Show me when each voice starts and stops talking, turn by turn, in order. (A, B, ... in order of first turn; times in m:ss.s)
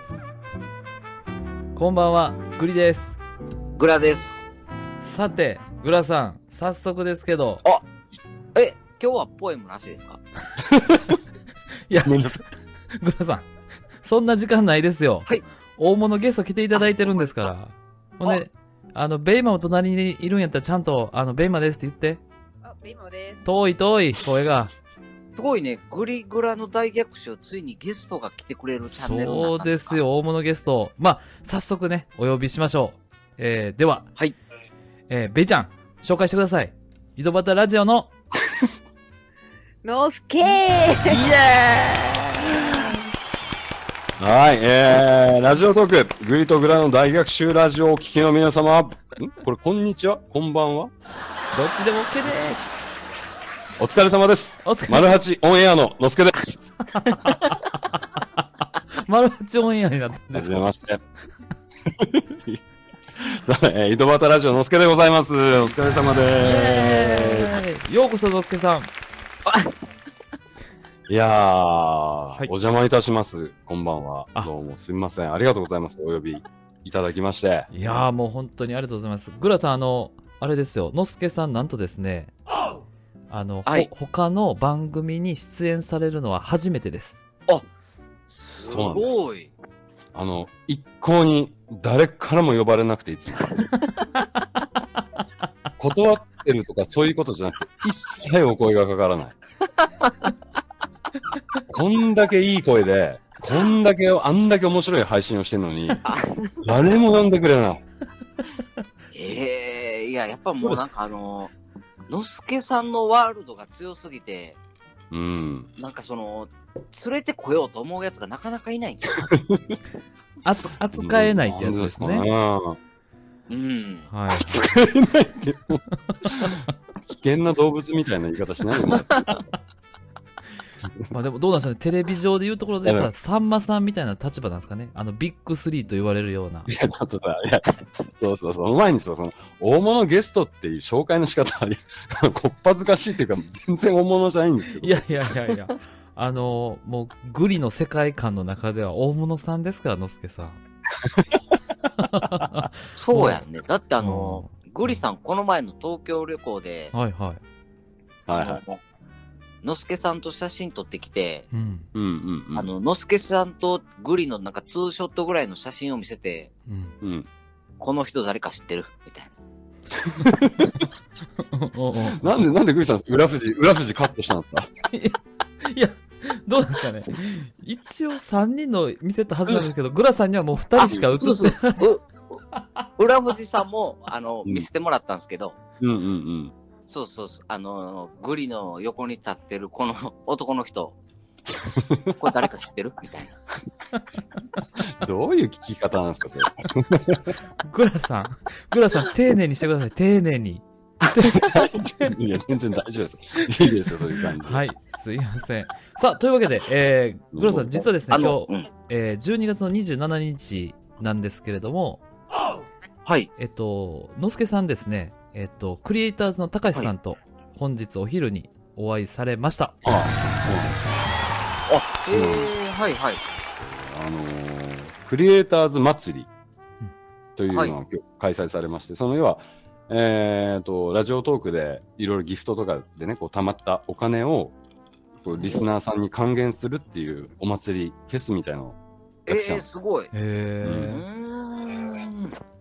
0:01.8-0:03.2 A
0:03.8-0:04.4 B
0:05.0-0:07.6 A
0:08.6-0:10.2 B
0:10.6-0:11.2 C
0:11.9-0:12.4 A
0:12.0-0:12.4 C
0:13.0-0:13.5 A
0:14.0-0:22.2 A
0:22.6-0:23.4 D
0:23.4-0:24.7 A
0:25.4-0:30.0 B
0:28.9-0:34.1 A
0:35.1-0:38.1 A
0:39.8-0:41.2 D
0:41.0-0:42.7 A
0:44.2-0:50.9 C
0:51.5-0:52.8 A
0:53.8-0:56.7 C
0:54.6-0:55.2 A
0:57.0-0:58.4 A
0:59.0-1:00.6 A
1:00.3-1:01.0 C
1:01.9-1:02.6 C
1:03.2-1:07.6 C
1:06.4-1:08.9 A
1:11.1-1:18.1 C
1:17.7-1:22.3 A
1:23.3-1:27.2 A
1:28.3-1:29.5 B
1:28.7-1:29.4 C
1:30.1-1:33.6 C
1:35.8-1:39.4 C
1:41.7-1:46.0 C
1:46.0-1:46.5 B
1:46.6-1:47.8 C
1:49.1-1:51.5 B
1:52.1-1:54.6 B
1:55.1-1:55.7 C
1:55.8-1:59.4 B
1:59.3-1:59.8 C
2:00.4-2:02.3 A
2:00.9-2:02.8 C
2:03.5-2:04.1 B
2:04.1-2:04.7 A
2:04.3-2:09.2 C
2:06.1-2:06.7 A
2:10.8-2:11.1 C
2:11.1-2:16.7 A
2:12.8-2:13.1 C
2:16.7-2:25.1 C
2:24.8-2:30.6 A
2:32.0-2:33.4 A
2:33.0-2:36.9 B
2:34.0-2:34.5 A
2:36.9-2:37.4 A
2:38.3-2:38.6 C
2:38.4-2:38.8 B
2:39.6-2:41.5 B
2:41.5-2:41.9 A
2:41.9-2:42.7 C
2:42.6-2:46.5 B
2:46.7-2:47.0 A
2:47.0-2:47.3 C
2:47.8-2:49.3 B
2:50.2-2:50.8 C
2:51.4-2:52.4 A
2:52.1-2:54.6 C
2:54.9-3:01.8 A
3:00.8-3:02.1 B
3:03.0-3:05.6 B
3:05.8-3:06.5 C
3:06.9-3:11.0 B
3:11.7-3:12.1 C
3:12.2-3:13.4 B
3:14.8-3:17.4 C
3:17.6-3:22.2 A
3:21.3-3:24.7 C
3:24.4-3:32.0 A
3:27.3-3:27.9 C
3:28.1-3:28.7 B
3:33.4-3:39.8 A
3:39.8-3:40.9 C
3:41.7-3:43.2 B
3:42.1-3:42.5 C
3:43.6-3:46.3 C
3:47.4-3:54.6 C
3:47.5-3:47.8 B
3:55.2-3:59.7 C
3:59.3-4:00.1 B
4:00.1-4:01.0 A
4:00.6-4:01.0 C
4:00.9-4:02.4 B